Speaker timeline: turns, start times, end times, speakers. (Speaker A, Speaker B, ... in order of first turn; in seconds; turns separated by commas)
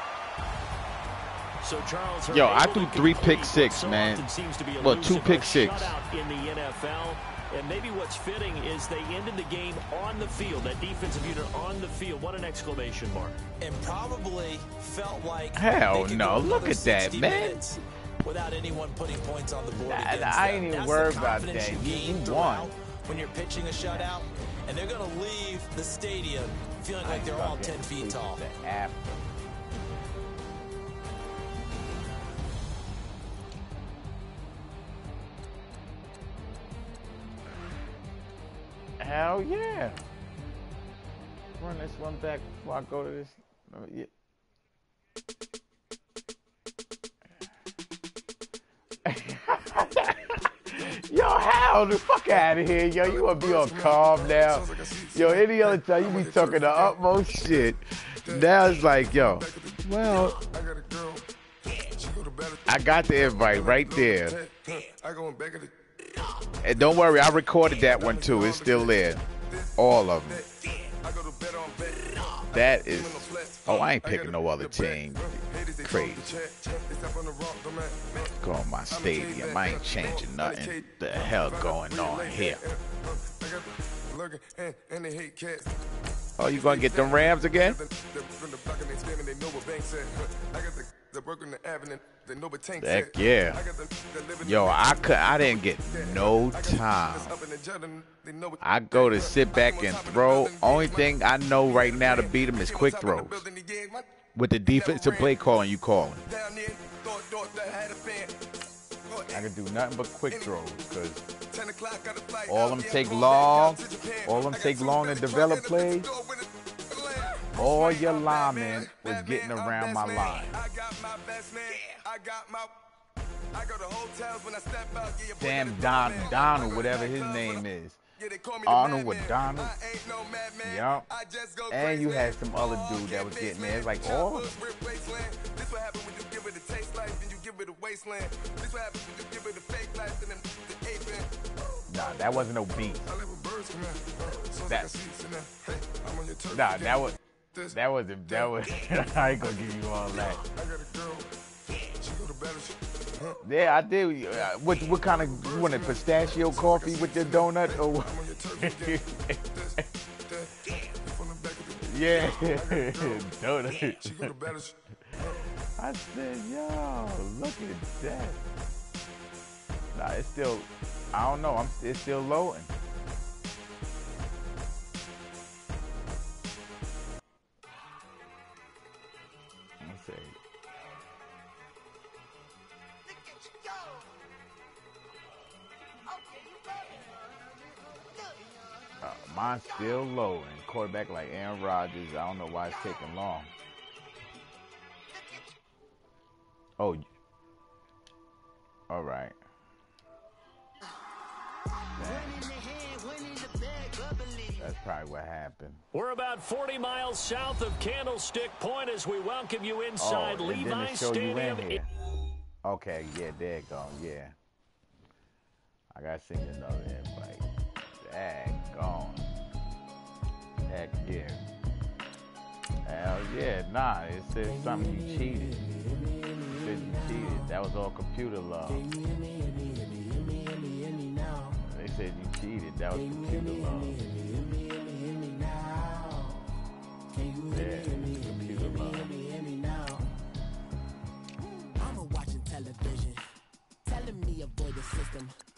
Speaker A: 1.6-13.4, Speaker B: 2.3-4.2, Speaker B: 4.8-5.9, Speaker C: 13.6-28.4, Speaker B: 15.5-17.6, Speaker B: 19.7-22.7, Speaker B: 27.0-29.3, Speaker B: 39.0-40.0, Speaker B: 41.6-44.1, Speaker B: 49.0-60.4, Speaker B: 62.6-64.5, Speaker B: 66.6-69.2, Speaker B: 69.8-70.5, Speaker B: 72.4-76.4, Speaker B: 78.3-82.7, Speaker B: 86.4-87.8, Speaker B: 92.7-93.7, Speaker B: 94.4-97.5, Speaker B: 98.6-103.5, Speaker B: 104.3-106.3, Speaker B: 109.3-111.2, Speaker B: 112.4-116.1, Speaker B: 117.5-120.6, Speaker B: 125.3-128.0, Speaker B: 128.6-129.9, Speaker B: 130.6-131.1, Speaker B: 131.7-134.6, Speaker B: 141.9-143.2, Speaker B: 144.5-145.1, Speaker B: 146.5-150.4, Speaker B: 153.4-159.8, Speaker B: 161.8-164.5, Speaker B: 165.8-168.4, Speaker B: 169.9-172.7, Speaker B: 179.8-180.4, Speaker B: 189.0-193.5, Speaker B: 196.8-197.0, Speaker B: 198.9-199.4, Speaker D: 201.9-204.7, Speaker B: 202.0-202.4, Speaker B: 204.6-205.8, Speaker A: 205.9-211.8, Speaker B: 210.0-211.9, Speaker B: 212.6-214.3, Speaker B: 215.9-217.5, Speaker B: 218.0-219.4, Speaker B: 220.6-221.5, Speaker B: 222.8-225.6, Speaker D: 224.4-227.5, Speaker B: 226.5-228.9, Speaker D: 228.7-231.6, Speaker B: 231.6-234.0, Speaker D: 232.9-236.4, Speaker D: 237.1-240.1, Speaker B: 237.5-239.1, Speaker D: 241.8-243.3, Speaker D: 243.8-245.3